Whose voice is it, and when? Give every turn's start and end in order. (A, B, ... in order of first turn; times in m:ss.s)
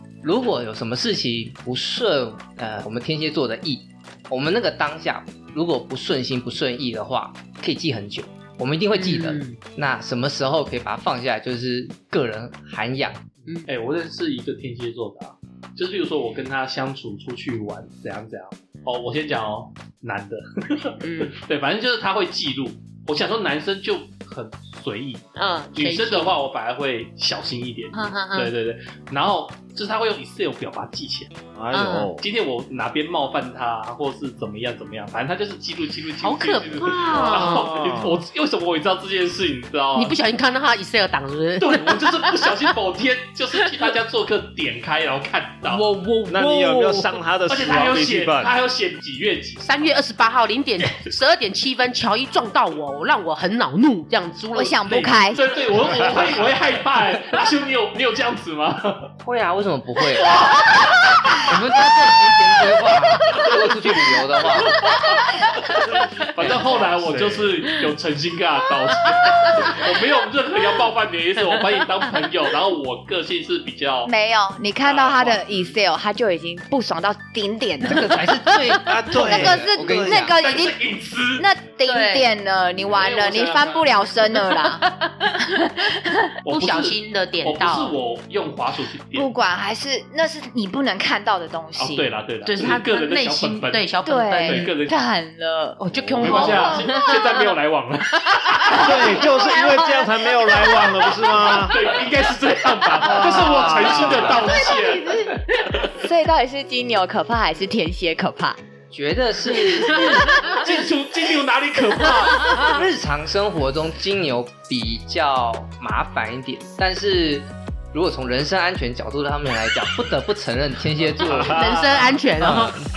0:00.2-0:13.2 A
0:08.9-0:09.6 B
0:13.7-0:31.3 C
0:21.0-0:21.4 B
0:25.4-0:26.3 B
0:27.9-0:28.5 B
0:31.6-0:32.2 D
0:31.7-0:32.1 B
0:32.2-0:40.2 C
0:36.2-0:37.7 B
0:37.2-0:38.2 D
0:39.9-0:42.6 B
0:41.6-0:45.9 C
0:45.6-0:47.2 B
0:46.3-0:48.5 D
0:47.5-0:49.6 C
0:49.6-0:55.1 B
0:54.5-0:55.4 E
0:54.8-0:59.1 C
0:59.2-1:00.4 A
1:00.3-1:00.7 C
1:01.4-1:04.8 A
1:05.6-1:14.1 C
1:05.9-1:07.6 D
1:09.4-1:09.8 B
1:14.0-1:18.3 E
1:14.8-1:15.7 C
1:17.8-1:20.3 A
1:18.4-1:18.8 B
1:18.8-1:20.4 D
1:19.1-1:20.8 E
1:20.3-1:21.5 C
1:21.4-1:24.8 E
1:21.8-1:22.3 B
1:22.8-1:24.1 C
1:24.6-1:25.9 B
1:25.7-1:26.3 E
1:26.4-1:29.3 C
1:26.5-1:27.9 B
1:29.2-1:32.1 E
1:31.8-1:33.9 C
1:32.4-1:34.7 B
1:34.0-1:37.1 E
1:34.4-1:35.0 C
1:35.8-1:37.2 B
1:36.2-1:39.0 C
1:38.3-1:41.1 B
1:38.7-1:40.1 E
1:38.8-1:41.8 D
1:41.3-1:45.9 C
1:43.0-1:44.4 D
1:44.1-1:48.6 E
1:48.9-1:50.6 A
1:50.4-1:52.7 C
1:52.5-2:01.7 A
2:01.2-2:02.0 D
2:01.4-2:02.8 B
2:02.4-2:02.8 A